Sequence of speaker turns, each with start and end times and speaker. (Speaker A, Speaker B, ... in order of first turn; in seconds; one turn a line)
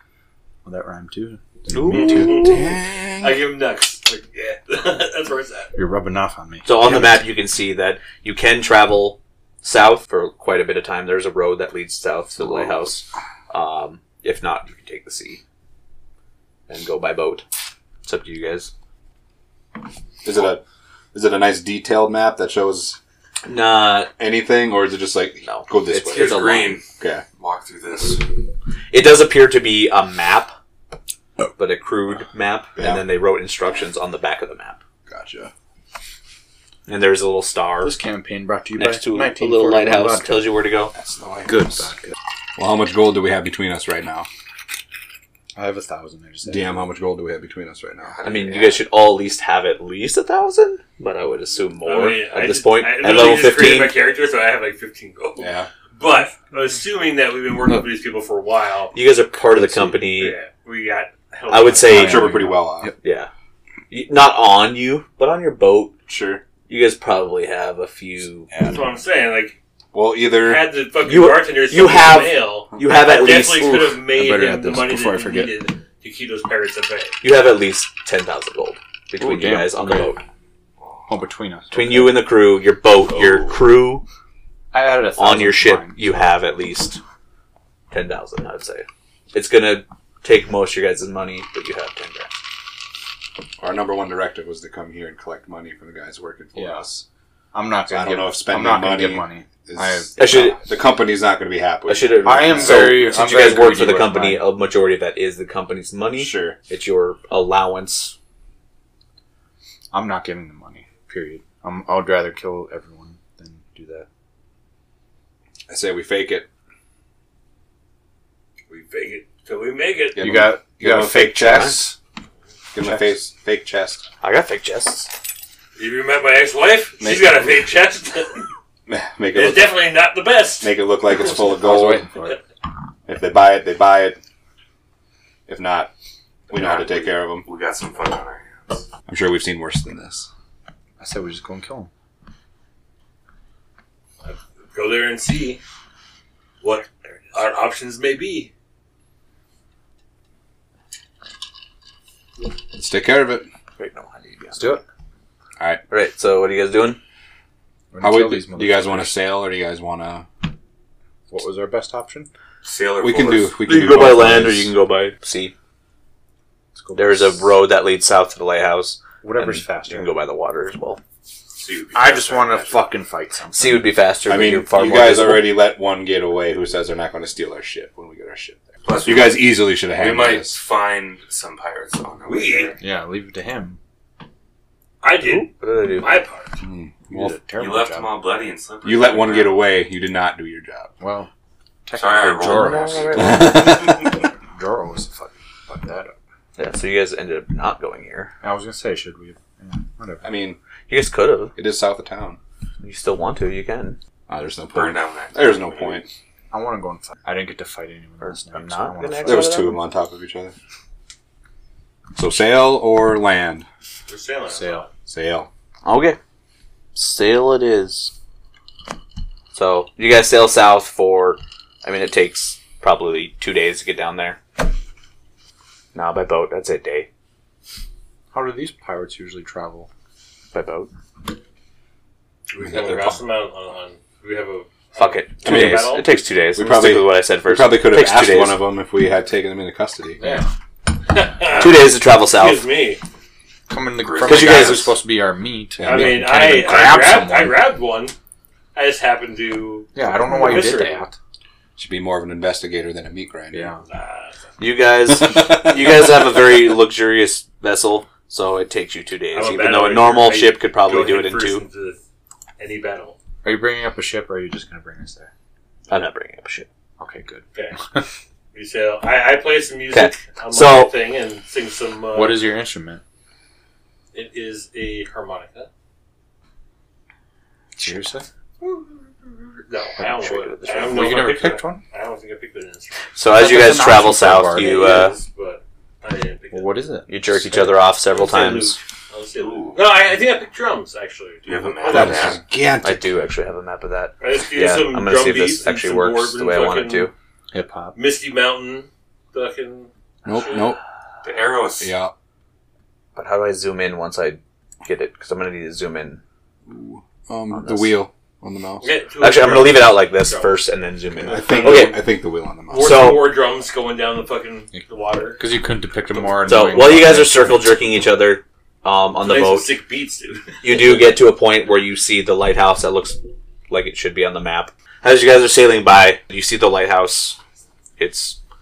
Speaker A: 0.6-2.5
Speaker B: 1.7-2.6
Speaker C: 2.0-3.4
Speaker D: 2.1-2.7
Speaker D: 3.2-5.7
Speaker A: 5.8-7.2
Speaker B: 6.6-15.4
Speaker B: 16.7-17.4
Speaker B: 18.0-18.7
Speaker C: 20.2-20.6
Speaker C: 21.1-23.0
Speaker B: 23.4-24.1
Speaker C: 24.2-26.4
Speaker B: 25.4-26.8
Speaker E: 26.0-28.2
Speaker C: 27.0-27.2
Speaker B: 28.9-30.5
Speaker B: 31.6-34.8
Speaker C: 32.8-33.0
Speaker C: 35.1-35.5
Speaker B: 36.9-38.0
Speaker A: 37.8-40.5
Speaker B: 38.8-40.9
Speaker C: 40.9-41.9
Speaker A: 41.5-42.1
Speaker C: 42.6-44.3
Speaker A: 45.5-46.8
Speaker C: 46.4-48.1
Speaker E: 48.1-48.8
Speaker B: 48.2-54.0
Speaker D: 51.8-58.9
Speaker C: 55.4-55.7
Speaker B: 58.9-60.4
Speaker A: 59.5-60.0
Speaker D: 60.2-62.1
Speaker B: 61.5-62.3
Speaker A: 61.8-62.9
Speaker C: 61.9-62.9
Speaker B: 63.0-63.3
Speaker B: 63.9-65.9
Speaker C: 66.1-66.4
Speaker B: 66.7-68.5
Speaker D: 68.5-69.6
Speaker C: 69.9-70.7
Speaker D: 70.4-77.2
Speaker B: 71.0-73.9
Speaker A: 74.1-75.5
Speaker B: 77.2-80.2
Speaker A: 79.2-80.1
Speaker A: 81.1-82.2
Speaker B: 81.7-84.0
Speaker E: 83.2-83.5
Speaker A: 84.7-86.2
Speaker B: 85.2-87.0
Speaker B: 87.9-92.4
Speaker C: 93.6-97.0
Speaker A: 96.5-96.9
Speaker A: 97.5-100.5
Speaker C: 97.9-103.0
Speaker B: 100.2-100.6
Speaker B: 101.9-108.1
Speaker A: 102.2-104.5
Speaker C: 106.2-106.6
Speaker A: 109.9-114.1
Speaker C: 115.7-116.5
Speaker D: 118.7-120.3
Speaker C: 120.1-121.8
Speaker A: 120.2-122.0
Speaker B: 121.5-121.8
Speaker C: 122.7-124.0
Speaker A: 122.8-123.1
Speaker B: 124.2-125.1
Speaker D: 125.8-128.5
Speaker C: 127.0-127.6
Speaker C: 128.9-129.8
Speaker D: 129.3-130.7
Speaker C: 130.6-132.1
Speaker A: 131.3-132.4
Speaker C: 133.1-134.2
Speaker C: 135.5-135.9
Speaker C: 136.5-137.5
Speaker E: 136.5-138.9
Speaker C: 139.1-140.3
Speaker A: 141.0-141.9
Speaker D: 144.2-145.6
Speaker D: 146.6-148.5
Speaker C: 152.7-153.5
Speaker B: 153.8-154.8
Speaker A: 154.5-154.8
Speaker B: 155.9-157.0
Speaker A: 157.9-159.2
Speaker C: 158.0-160.3
Speaker A: 161.3-162.3
Speaker E: 162.6-163.6
Speaker C: 163.0-164.7
Speaker B: 163.7-165.5
Speaker A: 166.8-167.5
Speaker B: 166.9-171.0
Speaker A: 169.2-170.1
Speaker E: 171.5-172.9
Speaker A: 171.9-173.9
Speaker B: 173.5-175.6
Speaker C: 174.3-180.6
Speaker E: 178.8-182.8
Speaker D: 182.2-182.8
Speaker A: 182.8-183.8
Speaker D: 185.0-186.6
Speaker B: 185.2-186.2
Speaker C: 186.6-187.3
Speaker A: 187.1-188.2
Speaker E: 187.5-189.6
Speaker C: 188.8-190.9
Speaker A: 191.0-191.3
Speaker A: 191.8-196.1
Speaker E: 191.9-193.3
Speaker B: 192.4-193.6
Speaker C: 193.2-194.1
Speaker B: 196.6-198.3
Speaker A: 198.4-200.2
Speaker C: 200.2-200.6
Speaker B: 200.9-201.5
Speaker C: 201.5-202.4
Speaker B: 202.8-204.0
Speaker C: 204.3-206.1
Speaker E: 204.7-206.0
Speaker A: 206.5-209.6
Speaker B: 208.2-209.8
Speaker C: 209.2-210.5
Speaker C: 212.2-213.7
Speaker D: 214.1-214.9
Speaker A: 214.5-214.9
Speaker C: 215.1-215.5
Speaker B: 215.8-216.2
Speaker B: 216.9-218.1
Speaker B: 219.5-224.4
Speaker B: 225.9-227.1
Speaker A: 228.3-229.9
Speaker B: 230.5-230.9
Speaker D: 232.5-236.1
Speaker C: 232.6-233.2
Speaker B: 234.9-238.6
Speaker C: 235.4-235.9
Speaker C: 236.5-240.4
Speaker A: 240.2-240.5
Speaker D: 241.0-243.0
Speaker B: 241.5-242.6
Speaker A: 243.7-247.6
Speaker E: 244.0-244.8
Speaker B: 244.2-244.9
Speaker C: 245.8-246.3
Speaker D: 245.8-248.1
Speaker D: 248.7-251.0
Speaker A: 249.9-251.1
Speaker C: 251.8-253.7
Speaker A: 253.5-253.8
Speaker D: 253.9-254.4
Speaker B: 254.6-261.6
Speaker C: 255.2-255.8
Speaker D: 259.3-262.0
Speaker D: 262.6-263.2
Speaker A: 263.4-265.3
Speaker B: 265.9-266.7
Speaker A: 267.0-268.0
Speaker D: 268.5-272.5
Speaker B: 269.9-270.9
Speaker A: 272.1-273.0
Speaker D: 274.1-275.7
Speaker A: 277.8-278.3
Speaker D: 278.6-283.0
Speaker B: 280.0-281.3
Speaker A: 280.7-281.8
Speaker B: 283.1-285.2
Speaker A: 283.3-285.1
Speaker D: 284.5-286.7
Speaker A: 286.5-287.8
Speaker B: 287.1-288.8
Speaker D: 288.1-292.3
Speaker E: 289.3-289.8
Speaker E: 291.4-292.4
Speaker C: 291.9-293.1
Speaker B: 292.8-297.1
Speaker D: 294.2-297.1
Speaker A: 297.5-298.0
Speaker D: 297.9-300.7
Speaker C: 300.2-300.8
Speaker E: 301.2-301.9
Speaker C: 301.8-302.1
Speaker B: 303.1-306.2
Speaker C: 306.7-308.9
Speaker B: 307.5-307.9
Speaker D: 308.8-310.6
Speaker B: 309.2-312.0
Speaker C: 311.2-313.1
Speaker D: 311.4-311.9
Speaker D: 312.7-315.4
Speaker B: 312.7-313.2
Speaker A: 315.4-317.7
Speaker B: 316.4-319.7
Speaker D: 319.2-321.0
Speaker B: 320.6-323.2
Speaker B: 323.7-327.4
Speaker B: 328.0-328.4